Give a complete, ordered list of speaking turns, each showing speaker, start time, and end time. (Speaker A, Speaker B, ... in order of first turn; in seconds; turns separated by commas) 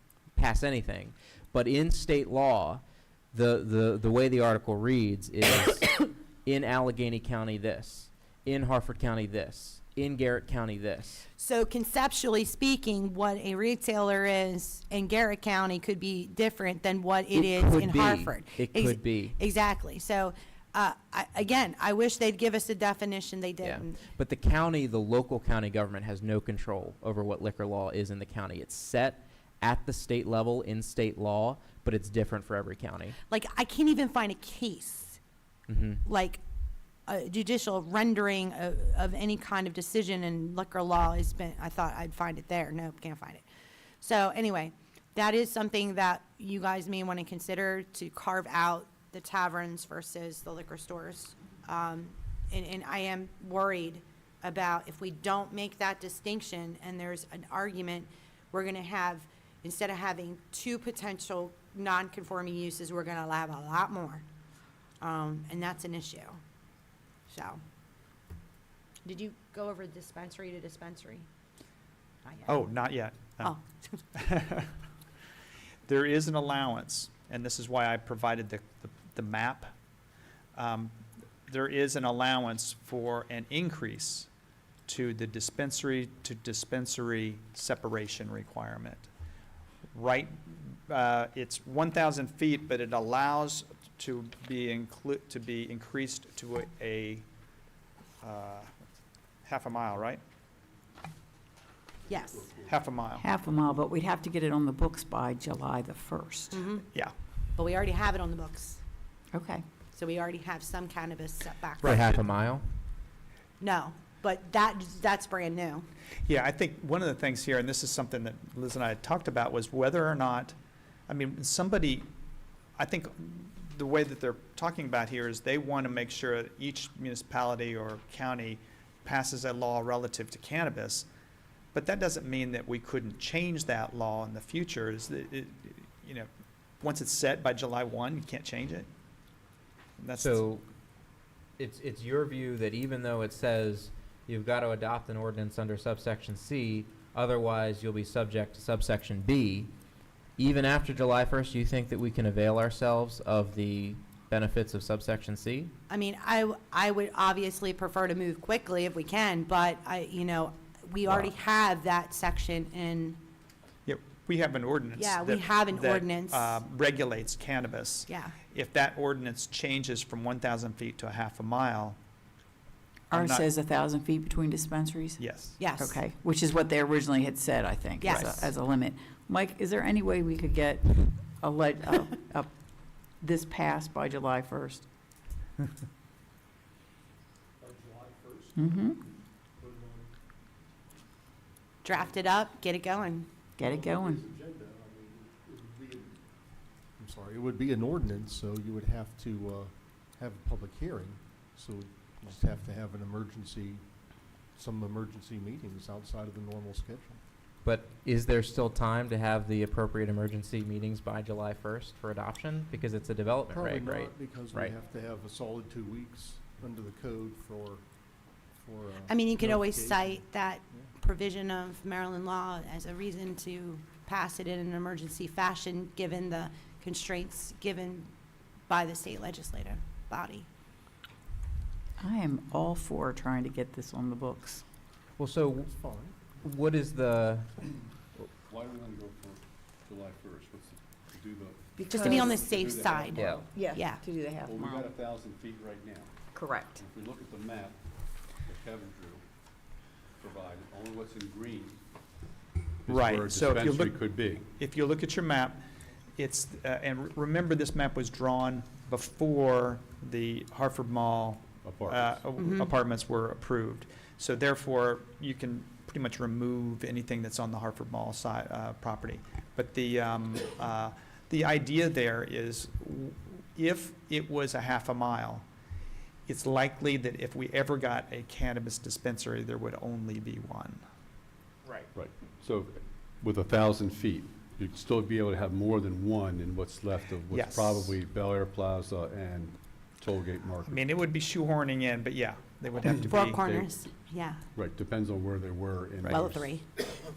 Speaker A: 0.3-2.8, Speaker A: 3.3-11.3, Speaker B: 11.4-24.0, Speaker A: 17.3-19.4, Speaker A: 23.6-33.2, Speaker B: 33.3-35.2, Speaker A: 35.7-36.0, Speaker B: 36.0-36.4, Speaker B: 37.1-43.5, Speaker B: 44.0-64.2, Speaker B: 65.0-66.4, Speaker B: 67.3-67.6, Speaker B: 69.0-71.3, Speaker B: 72.2-72.6, Speaker C: 72.5-73.5, Speaker B: 73.4-74.0, Speaker C: 74.1-74.7, Speaker C: 75.9-79.7, Speaker C: 80.5-80.9, Speaker C: 81.5-84.3, Speaker C: 84.9-89.1, Speaker C: 89.9-97.2, Speaker C: 98.2-98.7, Speaker C: 99.4-100.2, Speaker B: 102.1-102.5, Speaker C: 102.6-103.2, Speaker D: 103.1-106.6, Speaker B: 106.5-106.8, Speaker B: 107.5-108.8, Speaker D: 109.3-109.6, Speaker B: 109.9-112.0, Speaker C: 111.8-112.2, Speaker A: 111.8-112.6, Speaker B: 113.6-115.9, Speaker C: 116.2-120.5, Speaker C: 121.1-122.1, Speaker C: 122.8-131.1, Speaker C: 131.7-136.3, Speaker C: 136.8-138.9, Speaker C: 140.0-140.5, Speaker A: 140.2-140.6, Speaker A: 141.6-149.7, Speaker A: 150.4-155.7, Speaker B: 155.9-163.2, Speaker C: 163.8-172.0, Speaker B: 165.0-166.6, Speaker B: 168.1-168.3, Speaker D: 173.1-175.2, Speaker C: 173.1-173.5, Speaker C: 175.2-175.7, Speaker B: 175.6-176.0, Speaker D: 175.8-182.5, Speaker B: 178.0-178.5, Speaker D: 183.2-184.8, Speaker E: 187.6-190.1, Speaker D: 188.6-189.0, Speaker B: 191.8-193.3, Speaker D: 193.6-194.2, Speaker E: 193.6-196.2, Speaker E: 197.0-203.8, Speaker E: 204.5-207.2, Speaker A: 207.6-214.8, Speaker E: 213.5-217.8, Speaker E: 218.6-220.9, Speaker B: 219.1-228.1, Speaker B: 228.7-230.5, Speaker D: 232.0-234.6, Speaker A: 235.2-235.7, Speaker E: 235.7-236.2, Speaker A: 236.4-237.5, Speaker F: 238.5-243.7, Speaker D: 241.8-242.4, Speaker B: 241.9-244.0, Speaker A: 243.2-243.5, Speaker D: 243.5-244.9, Speaker F: 244.4-247.8, Speaker D: 246.3-246.8, Speaker F: 248.4-249.2, Speaker F: 250.2-251.8, Speaker C: 252.9-254.0, Speaker F: 252.9-254.5, Speaker C: 254.6-255.6, Speaker C: 256.2-275.5, Speaker F: 261.6-262.2, Speaker B: 262.4-262.7, Speaker C: 276.3-280.8, Speaker F: 281.9-290.9, Speaker C: 287.3-287.9, Speaker C: 290.6-293.4, Speaker B: 293.0-294.4, Speaker F: 294.6-296.6, Speaker B: 296.1-296.9